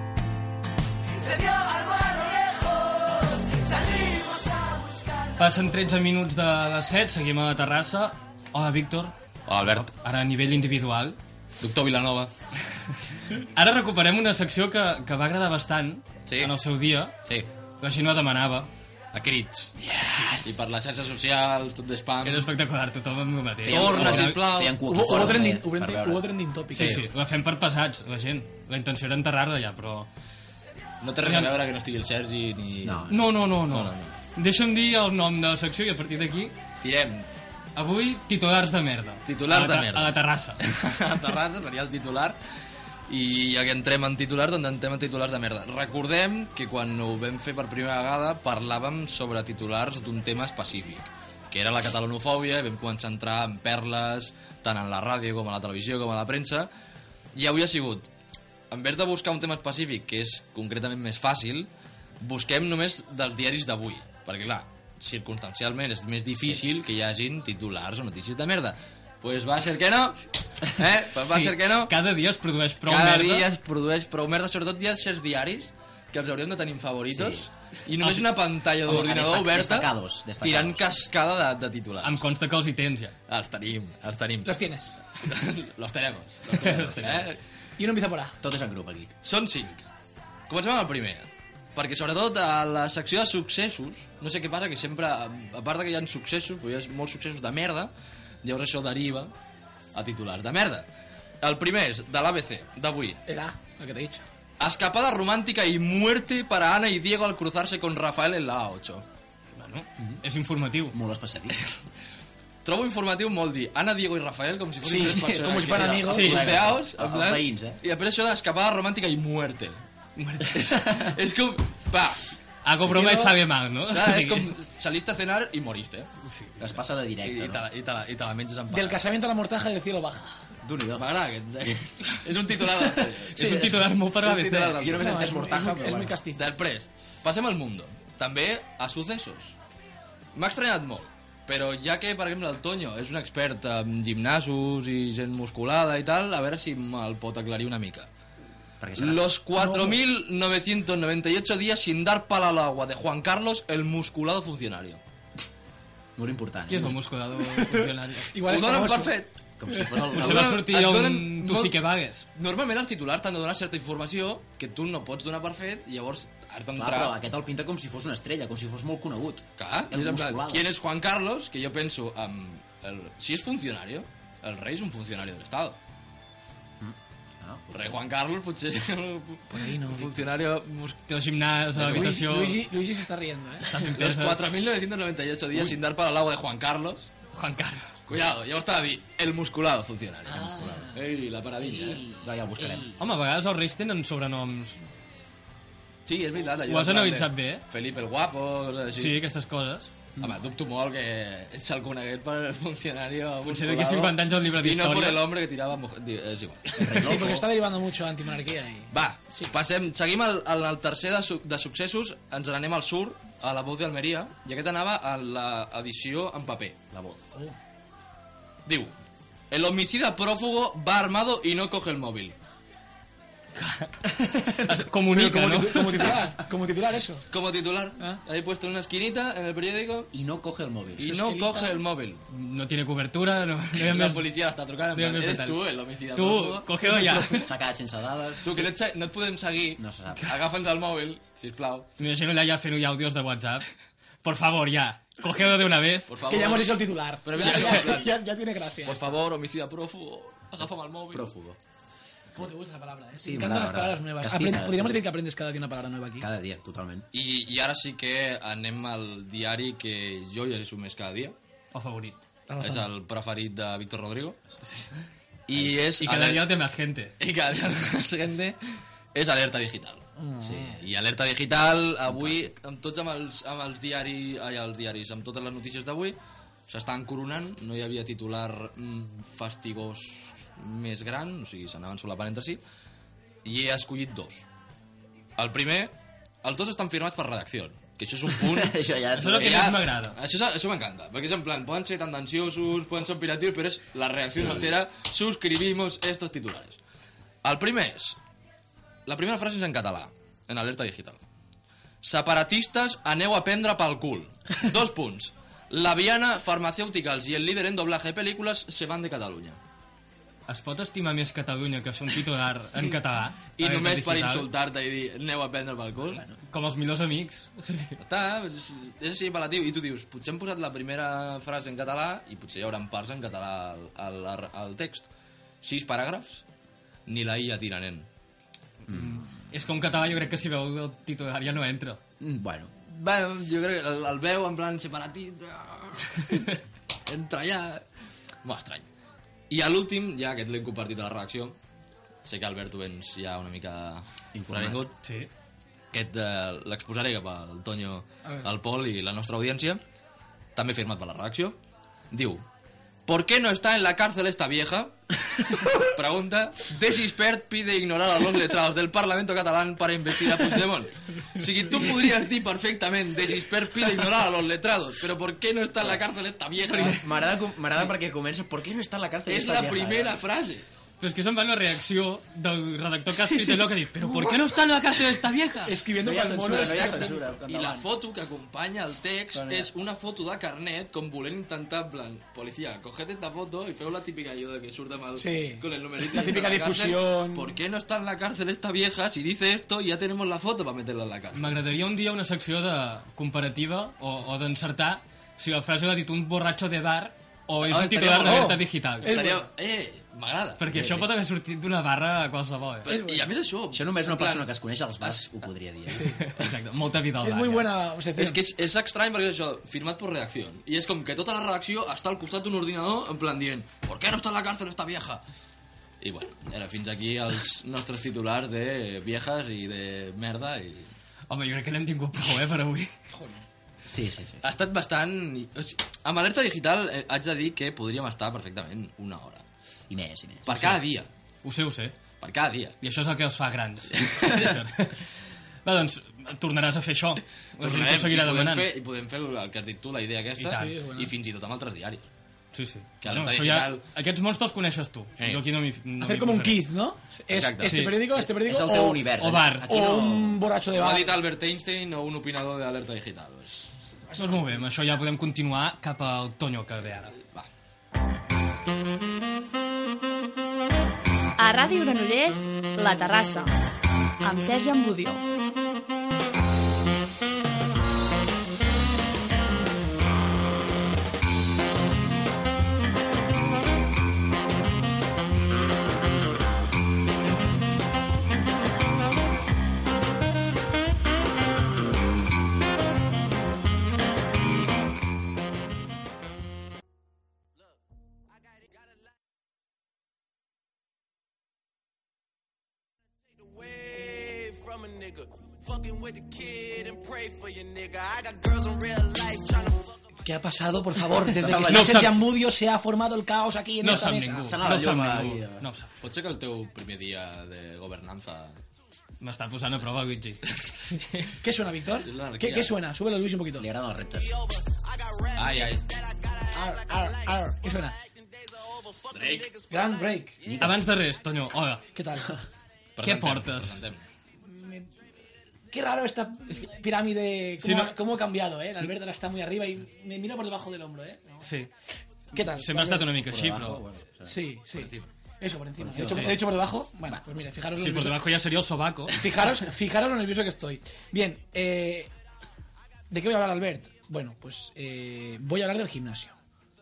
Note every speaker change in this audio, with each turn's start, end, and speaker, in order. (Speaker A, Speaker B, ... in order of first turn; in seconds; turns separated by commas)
Speaker A: 1.2-5.4, Speaker B: 5.4-11.2, Speaker C: 9.5-9.9, Speaker C: 11.6-12.3, Speaker B: 13.5-17.1, Speaker B: 17.8-18.7, Speaker C: 19.1-19.8, Speaker C: 20.4-22.5, Speaker B: 22.2-24.4, Speaker D: 23.6-26.3, Speaker C: 23.7-24.8, Speaker E: 24.8-27.0, Speaker B: 26.8-30.1, Speaker C: 31.0-33.1, Speaker B: 31.2-31.5, Speaker D: 32.8-33.3, Speaker B: 33.1-36.5, Speaker C: 33.7-34.1, Speaker C: 36.8-37.3, Speaker B: 37.8-40.6, Speaker C: 39.3-42.4, Speaker C: 43.1-56.7, Speaker C: 57.4-58.1, Speaker C: 58.7-61.7, Speaker C: 62.2-71.9, Speaker B: 71.3-73.5, Speaker C: 72.9-79.9, Speaker D: 77.1-77.5, Speaker D: 78.8-80.8, Speaker C: 80.4-82.2, Speaker B: 82.0-83.1, Speaker C: 83.3-84.6, Speaker E: 84.5-85.0, Speaker C: 85.2-87.4, Speaker B: 86.6-87.2, Speaker E: 87.8-88.4, Speaker D: 88.4-89.1, Speaker C: 89.2-89.8, Speaker C: 90.5-97.9, Speaker C: 98.4-99.3, Speaker C: 99.9-100.8, Speaker C: 101.4-103.2, Speaker E: 103.3-104.2, Speaker C: 104.6-109.0, Speaker B: 109.6-111.0, Speaker D: 110.9-111.6, Speaker C: 112.6-119.8, Speaker E: 114.8-116.5, Speaker D: 115.0-117.8, Speaker B: 116.1-116.4, Speaker B: 120.2-120.8, Speaker C: 120.5-122.3, Speaker B: 122.6-124.5, Speaker E: 122.9-123.4, Speaker C: 123.9-126.1, Speaker B: 126.2-126.5, Speaker D: 126.6-127.6, Speaker C: 127.2-129.0, Speaker E: 128.7-130.3, Speaker D: 130.6-131.1, Speaker C: 130.9-135.3, Speaker D: 132.9-133.9, Speaker B: 133.4-134.9, Speaker D: 134.8-136.2, Speaker E: 135.0-136.5, Speaker C: 136.4-139.5, Speaker C: 140.3-148.1, Speaker D: 148.8-149.3, Speaker C: 149.0-155.0, Speaker E: 149.6-150.0, Speaker D: 156.2-157.0, Speaker B: 156.7-158.3, Speaker E: 157.6-159.2, Speaker C: 158.5-159.3, Speaker D: 159.6-160.7, Speaker C: 159.9-161.8, Speaker B: 160.1-162.2, Speaker C: 162.3-167.2, Speaker D: 166.8-170.7, Speaker C: 169.6-175.8, Speaker D: 176.8-178.0, Speaker C: 177.7-181.0, Speaker E: 179.5-180.2, Speaker B: 181.1-182.6, Speaker C: 181.8-182.2, Speaker E: 181.8-183.7, Speaker B: 183.7-184.5, Speaker C: 183.9-187.1, Speaker B: 187.3-187.9, Speaker C: 188.1-192.1, Speaker D: 190.3-190.9, Speaker D: 191.6-192.9, Speaker B: 193.0-194.8, Speaker C: 196.1-199.2, Speaker B: 196.7-197.6, Speaker B: 199.0-199.9, Speaker C: 200.2-207.2, Speaker B: 203.4-205.2, Speaker D: 206.8-207.5, Speaker E: 207.0-209.5, Speaker C: 208.9-216.8, Speaker D: 216.9-217.2, Speaker C: 218.7-218.9, Speaker C: 219.5-222.4, Speaker B: 223.6-223.9, Speaker B: 224.6-226.1, Speaker E: 225.1-227.2, Speaker C: 227.3-230.1, Speaker D: 230.1-231.2, Speaker C: 231.0-232.2, Speaker E: 231.0-231.8, Speaker B: 232.3-234.2, Speaker C: 233.8-236.8, Speaker B: 234.9-237.5, Speaker D: 237.0-238.7, Speaker C: 238.4-241.9, Speaker D: 239.8-240.4, Speaker B: 242.0-243.7, Speaker B: 244.2-246.1, Speaker C: 246.1-248.2, Speaker E: 246.3-249.0, Speaker C: 248.8-251.4, Speaker D: 251.1-251.6, Speaker E: 252.4-256.3, Speaker D: 253.2-255.1, Speaker D: 256.2-257.1, Speaker C: 257.1-261.4, Speaker B: 261.7-262.2, Speaker E: 262.5-262.9, Speaker C: 262.6-264.4, Speaker C: 265.5-266.5, Speaker D: 265.5-265.8, Speaker B: 266.0-267.1, Speaker C: 267.2-268.6, Speaker C: 269.1-270.0, Speaker E: 270.2-270.7, Speaker D: 270.4-270.8, Speaker C: 270.8-276.2, Speaker D: 272.1-272.5, Speaker C: 276.7-282.6, Speaker C: 283.4-284.4, Speaker C: 285.4-285.9, Speaker C: 286.4-296.8, Speaker D: 288.4-289.8, Speaker B: 289.2-290.1, Speaker D: 294.4-294.7, Speaker C: 297.4-298.2, Speaker C: 299.1-301.2, Speaker C: 302.0-309.6, Speaker B: 310.5-314.5, Speaker C: 313.6-316.2, Speaker B: 316.4-318.0, Speaker C: 318.0-325.1, Speaker C: 325.6-326.4, Speaker C: 327.1-328.1, Speaker D: 328.9-329.3, Speaker B: 328.9-332.0, Speaker D: 332.2-332.7, Speaker C: 332.9-337.8, Speaker C: 338.4-338.9, Speaker C: 339.5-341.6, Speaker C: 342.2-344.9, Speaker D: 344.4-344.8, Speaker B: 345.0-345.3, Speaker C: 345.9-349.8, Speaker C: 350.6-351.6, Speaker C: 352.1-352.4, Speaker C: 353.1-367.2, Speaker D: 366.6-370.2, Speaker C: 369.3-370.6, Speaker B: 371.0-375.7, Speaker E: 375.7-377.2, Speaker D: 376.0-377.9, Speaker C: 376.5-391.6, Speaker D: 379.3-379.7, Speaker E: 385.2-387.6, Speaker B: 391.4-399.1, Speaker C: 397.6-400.6, Speaker E: 398.2-399.5, Speaker B: 400.6-402.9, Speaker D: 400.7-401.1, Speaker C: 402.9-404.5, Speaker E: 402.9-403.3, Speaker D: 403.7-406.2, Speaker C: 405.0-405.3, Speaker B: 406.0-407.7, Speaker E: 407.2-408.4, Speaker C: 408.2-415.2, Speaker C: 416.0-420.9, Speaker B: 421.3-422.9, Speaker E: 423.1-423.4, Speaker D: 423.9-424.5, Speaker C: 424.4-429.4, Speaker D: 429.9-430.8, Speaker C: 430.5-431.1, Speaker B: 431.4-432.0, Speaker C: 432.2-432.8, Speaker B: 432.8-435.1, Speaker C: 433.9-434.6, Speaker B: 435.6-438.7, Speaker C: 437.6-442.1, Speaker B: 440.4-440.7, Speaker E: 440.5-441.1, Speaker B: 442.5-446.6, Speaker C: 443.0-443.8, Speaker E: 446.0-449.1, Speaker C: 447.3-447.8, Speaker D: 447.4-450.4, Speaker B: 447.7-448.0, Speaker B: 449.2-449.7, Speaker E: 449.7-451.2, Speaker C: 450.7-453.7, Speaker E: 454.1-454.4, Speaker B: 454.2-457.1, Speaker F: 461.4-463.5, Speaker F: 464.2-465.2, Speaker G: 493.4-499.9, Speaker E: 500.2-504.6, Speaker D: 501.2-502.2, Speaker B: 501.6-502.1, Speaker B: 503.8-505.9, Speaker D: 504.2-505.7, Speaker C: 506.0-508.6, Speaker B: 509.2-510.4, Speaker B: 510.9-511.3, Speaker E: 511.4-513.7, Speaker C: 512.0-512.8, Speaker D: 513.6-514.4, Speaker C: 515.4-515.9, Speaker E: 516.5-518.0, Speaker C: 519.1-519.5, Speaker G: 519.2-519.5, Speaker E: 519.7-520.4, Speaker D: 520.4-520.8, Speaker B: 520.6-521.8, Speaker E: 522.0-522.4, Speaker C: 523.0-524.1, Speaker B: 523.0-523.8, Speaker E: 524.5-524.9, Speaker E: 525.7-531.4, Speaker B: 527.6-527.9, Speaker B: 531.4-531.7, Speaker E: 532.3-533.1, Speaker B: 532.6-533.8, Speaker D: 533.2-534.4, Speaker E: 534.2-538.2, Speaker C: 534.8-535.1, Speaker D: 535.8-536.6, Speaker B: 536.0-536.3, Speaker B: 537.8-539.2, Speaker E: 539.2-542.1, Speaker E: 543.1-546.4